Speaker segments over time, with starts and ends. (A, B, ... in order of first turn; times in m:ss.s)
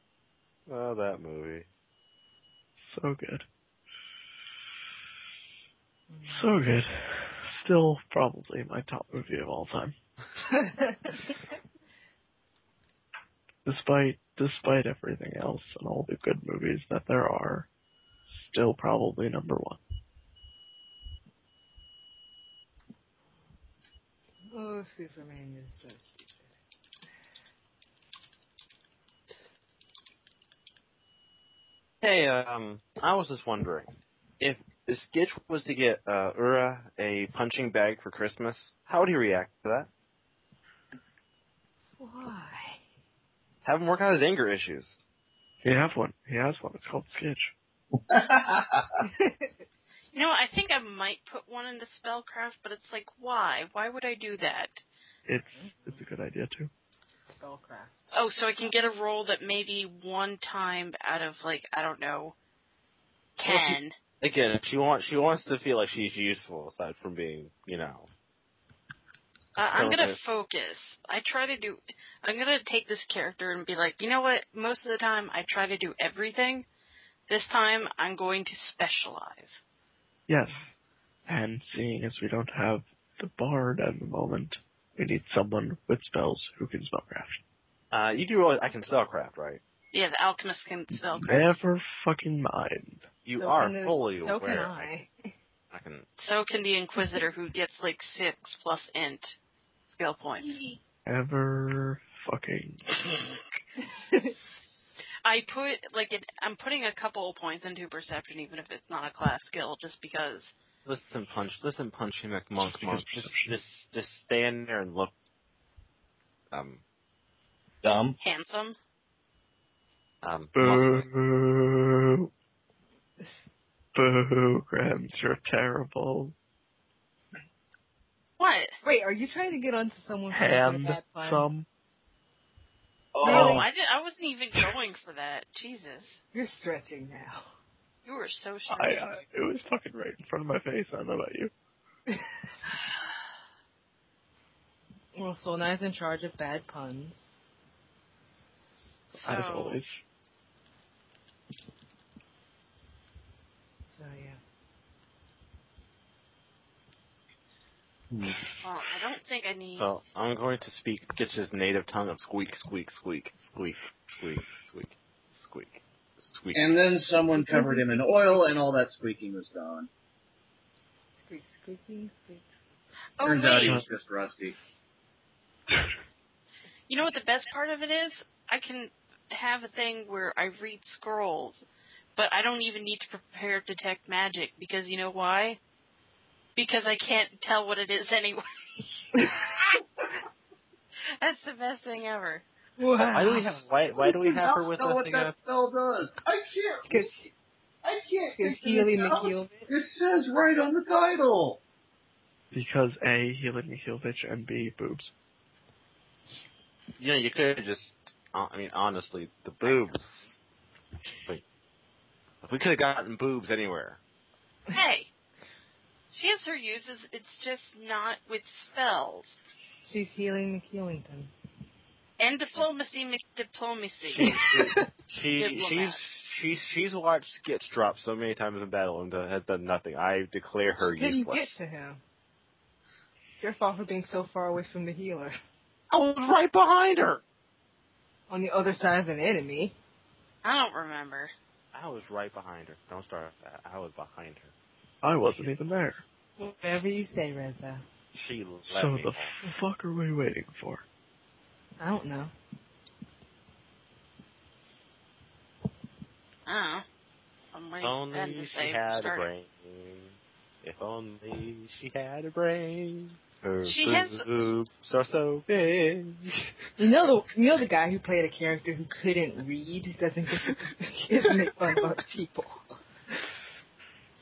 0:00.7-0:01.7 A
0:02.8-0:03.5 B
0:06.1-0:06.5 C
0:06.3-0:10.0 B
0:10.5-0:11.1 C
0:13.6-0:17.7 B
0:18.4-0:19.8 B
0:24.5-0:26.5 C
0:32.0-0:39.9 A
0:42.0-0:42.8 C
0:43.6-0:45.0 A
0:45.6-0:47.5 B
0:48.0-0:48.9 D
0:49.0-0:49.5 C
0:50.1-0:54.8 E
0:55.3-0:56.7 B
0:55.6-0:56.0 C
0:57.3-0:58.0 C
0:58.1-1:02.3 E
1:03.4-1:04.0 E
1:03.4-1:08.1 A
1:09.6-1:16.7 E
1:09.7-1:10.2 A
1:17.3-1:19.6 E
1:20.3-1:20.6 B
1:21.3-1:27.4 B
1:27.9-1:29.6 A
1:29.9-1:31.5 E
1:31.2-1:33.1 B
1:33.2-1:34.9 A
1:33.4-1:35.3 C
1:35.7-1:36.1 A
1:36.2-1:39.4 E
1:39.9-1:40.6 E
1:40.4-1:40.8 C
1:41.0-1:42.8 B
1:44.0-1:44.4 C
1:45.2-1:50.5 E
1:50.9-1:55.1 A
1:52.6-1:53.6 B
1:56.5-1:56.8 A
1:57.8-1:58.2 A
1:57.8-1:58.2 D
1:58.2-1:58.8 E
2:00.2-2:01.1 A
2:00.6-2:02.3 B
2:03.9-2:06.4 B
2:08.4-2:08.8 E
2:08.8-2:11.5 C
2:10.3-2:11.7 B
2:13.2-2:13.6 C
2:13.2-2:16.2 E
2:13.3-2:13.6 D
2:13.3-2:13.6 A
2:16.3-2:17.5 C
2:18.1-2:19.2 E
2:18.7-2:21.5 B
2:25.2-2:27.3 C
2:29.1-2:29.8 E
2:29.2-2:30.0 B
2:33.9-2:34.4 C
2:38.1-2:38.4 D
2:38.6-2:39.9 E
2:39.8-2:46.7 A
2:46.5-2:49.9 D
2:47.5-2:47.8 C
2:51.3-2:52.5 C
2:53.2-2:53.8 E
2:53.2-2:54.6 D
2:56.9-3:01.6 E
3:02.2-3:05.6 E
3:06.6-3:09.4 E
3:11.1-3:12.4 E
3:12.8-3:13.5 C
3:13.0-3:15.4 A
3:14.0-3:17.1 D
3:16.9-3:17.3 C
3:17.8-3:21.6 D
3:18.4-3:19.7 C
3:22.5-3:25.1 B
3:27.0-3:30.4 A
3:31.1-3:31.4 A
3:32.4-3:34.0 A
3:34.7-3:35.1 E
3:36.1-3:39.4 E
3:39.9-3:41.3 C
3:42.2-3:44.4 E
3:44.1-3:51.6 A
3:44.4-3:44.9 C
3:45.3-3:46.1 E
3:50.9-3:52.0 C
3:53.4-3:55.4 C
3:55.9-3:57.2 A
3:58.3-3:59.7 C
4:00.4-4:01.3 E
4:01.7-4:04.5 A
4:05.0-4:06.0 B
4:06.4-4:07.8 C
4:08.1-4:09.4 A
4:08.7-4:10.8 B
4:11.8-4:12.3 C
4:16.5-4:16.8 E
4:17.5-4:19.3 E
4:17.8-4:26.5 A
4:23.6-4:24.5 E
4:26.8-4:32.6 C